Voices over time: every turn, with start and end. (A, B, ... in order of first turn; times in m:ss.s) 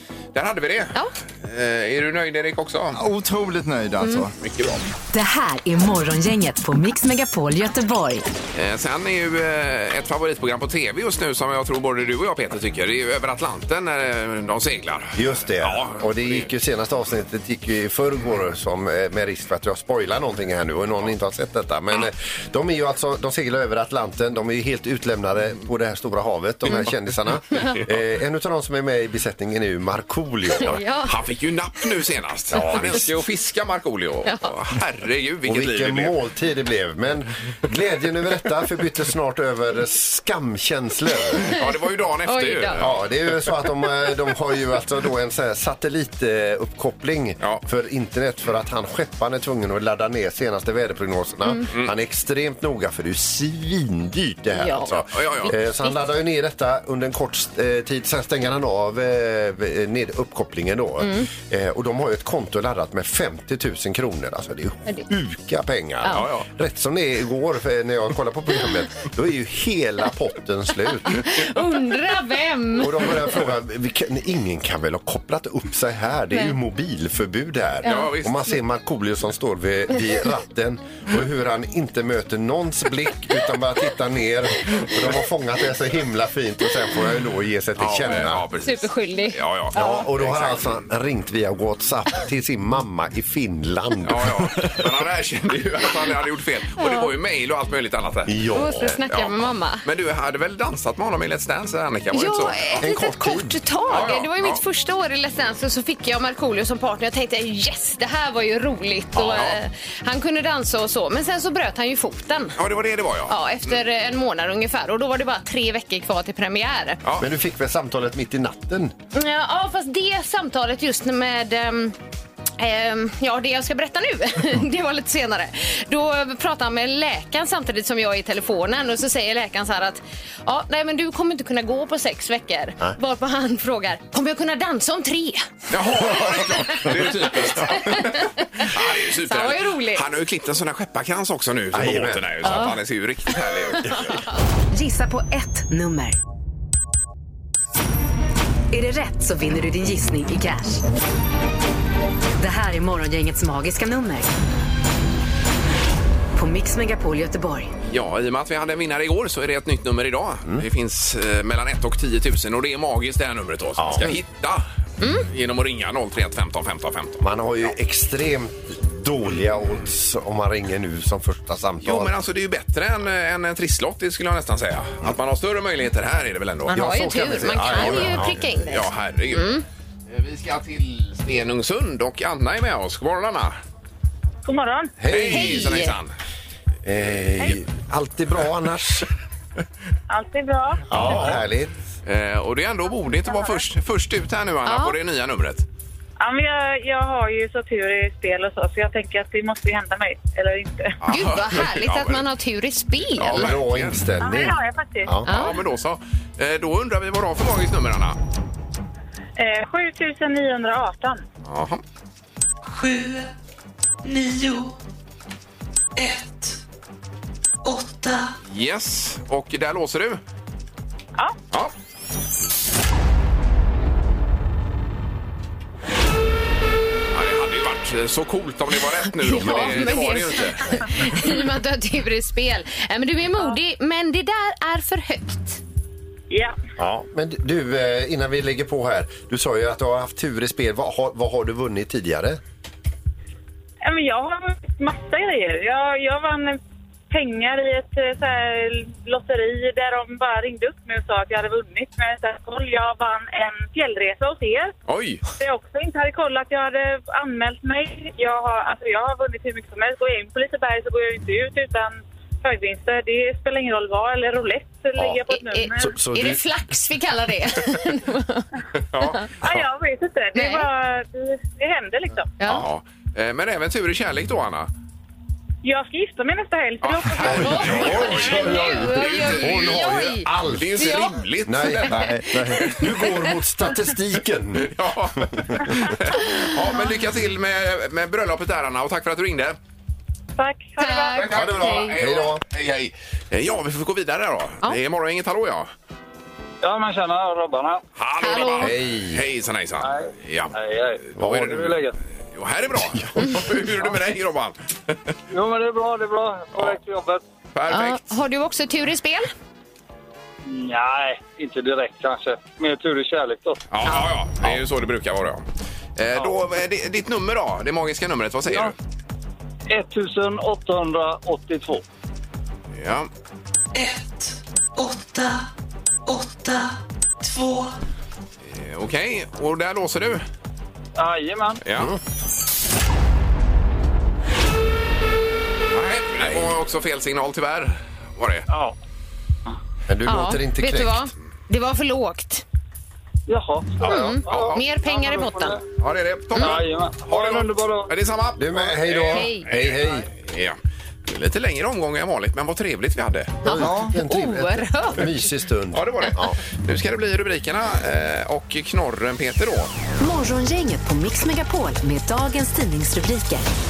0:00.3-0:03.0 A
0:03.0-0:04.3 B
0:04.0-0:04.3 C
0:04.4-0:04.8 A
0:05.1-0:08.2 D
0:08.5-0:16.5 A
0:15.2-0:30.8 E
0:30.6-0:31.1 C
0:31.0-0:36.2 A
0:32.5-0:33.1 E
0:34.2-0:34.5 C
0:35.4-0:41.4 E
0:41.4-0:41.6 C
0:41.4-0:43.1 A
0:42.3-0:42.8 C
0:42.8-1:11.2 E
0:54.6-0:56.1 C
0:55.1-0:55.5 A
1:01.0-1:01.3 C
1:06.0-1:06.3 C
1:06.1-1:06.5 A
1:11.1-1:13.2 C
1:12.8-1:28.5 E
1:17.8-1:18.5 A
1:17.8-1:18.1 C
1:27.8-1:30.8 A
1:28.6-1:30.0 C
1:29.7-1:34.6 E
1:34.0-1:38.4 A
1:36.8-1:37.1 C
1:38.3-1:39.0 E
1:38.5-1:39.8 C
1:39.1-1:42.8 A
1:42.1-1:52.6 C
1:42.8-1:44.1 E
1:43.9-1:44.6 A
1:49.2-1:49.6 A
1:52.6-1:53.4 A
1:53.3-1:57.0 C
1:57.2-1:58.9 E
1:59.1-2:02.0 C
2:02.6-2:15.4 C
2:15.7-2:24.0 A
2:16.0-2:20.1 C
2:21.7-2:22.3 E
2:22.4-2:22.8 C
2:23.8-2:24.2 C
2:24.7-2:26.2 D
2:28.7-2:30.8 D
2:32.4-2:34.3 D
2:36.4-2:37.7 D
2:37.9-2:44.6 A
2:43.8-2:44.2 E
2:45.0-2:45.3 C
2:45.2-2:47.3 A
2:47.2-2:52.1 E
2:51.8-2:56.8 A
2:56.7-2:58.4 E
2:56.7-2:59.6 C
2:57.6-3:03.6 A
3:04.4-3:04.9 F
3:05.0-3:05.8 E
3:05.1-3:06.1 A
3:05.3-3:06.0 C
3:06.8-3:09.1 E
3:10.1-3:10.9 F
3:10.9-3:11.8 E
3:10.9-3:11.4 A
3:12.0-3:15.6 A
3:13.2-3:13.6 F
3:14.6-3:15.0 C
3:16.2-3:21.0 F
3:21.0-3:22.2 A
3:21.1-3:23.4 C
3:23.2-3:24.0 A
3:23.3-3:25.3 E
3:24.2-3:25.1 F
3:25.3-3:25.6 C
3:25.3-3:28.2 A
3:29.4-3:31.2 F
3:31.5-3:31.8 A
3:32.7-3:33.3 G
3:34.0-3:34.8 G
3:36.0-3:36.6 G
3:37.6-3:38.4 G
3:38.5-3:40.2 A
3:47.1-3:50.9 A
3:49.0-3:55.6 C
3:49.4-3:49.9 E
3:56.3-3:56.6 F
3:56.8-4:02.4 E
4:03.8-4:06.6 F
4:07.1-4:14.7 F
4:14.9-4:15.2 A
4:15.4-4:26.0 F
4:25.0-4:25.2 E
4:25.3-4:28.5 C
4:25.8-4:26.5 E
4:28.8-4:29.3 A
4:29.4-4:32.3 F
4:30.3-4:30.7 C
4:32.4-4:32.6 C
4:32.5-4:34.7 A
4:35.6-4:37.6 F
4:36.8-4:39.9 A
4:37.2-4:41.2 C
4:37.3-4:44.7 E
4:40.4-4:42.1 A
4:41.9-4:42.2 B
4:42.3-4:43.2 C
4:44.6-4:49.6 A
4:45.3-4:45.7 E
4:46.2-4:46.8 C
4:50.4-4:51.3 F
4:50.8-4:52.0 C
4:51.2-4:55.7 A
4:51.2-4:52.4 E
4:56.6-4:57.8 H
4:58.0-5:00.6 A
4:58.2-4:58.7 C
4:58.6-4:59.2 E
4:59.8-5:02.0 H
5:01.2-5:01.8 A
5:01.2-5:01.7 E
5:02.3-5:05.1 A
5:02.9-5:03.6 E
5:05.3-5:07.2 H
5:07.5-5:08.1 A
5:07.7-5:09.3 C
5:10.5-5:13.6 H
5:13.7-5:15.4 A
5:16.0-5:18.7 A
5:18.5-5:18.7 H
5:19.7-5:21.8 H
5:22.8-5:23.1 A
5:23.7-5:25.5 G
5:26.1-5:27.8 G
5:28.4-5:30.3 A
5:31.0-5:31.6 H
5:31.6-5:31.9 A
5:35.7-5:38.5 A
5:36.2-5:36.6 E
5:38.5-5:38.8 H
5:39.9-5:41.0 E
5:40.1-5:42.4 C
5:43.3-5:45.6 H
5:43.8-5:44.2 E
5:43.8-5:45.6 C
5:44.3-5:44.6 A
5:45.8-5:53.4 A
5:46.4-5:46.6 C
5:46.4-5:47.9 H
5:48.4-5:50.1 E
5:49.1-5:49.5 C
5:53.4-5:55.2 C
5:53.4-5:56.4 E
5:53.6-5:53.9 B
5:55.7-5:59.7 A
6:00.0-6:03.5 D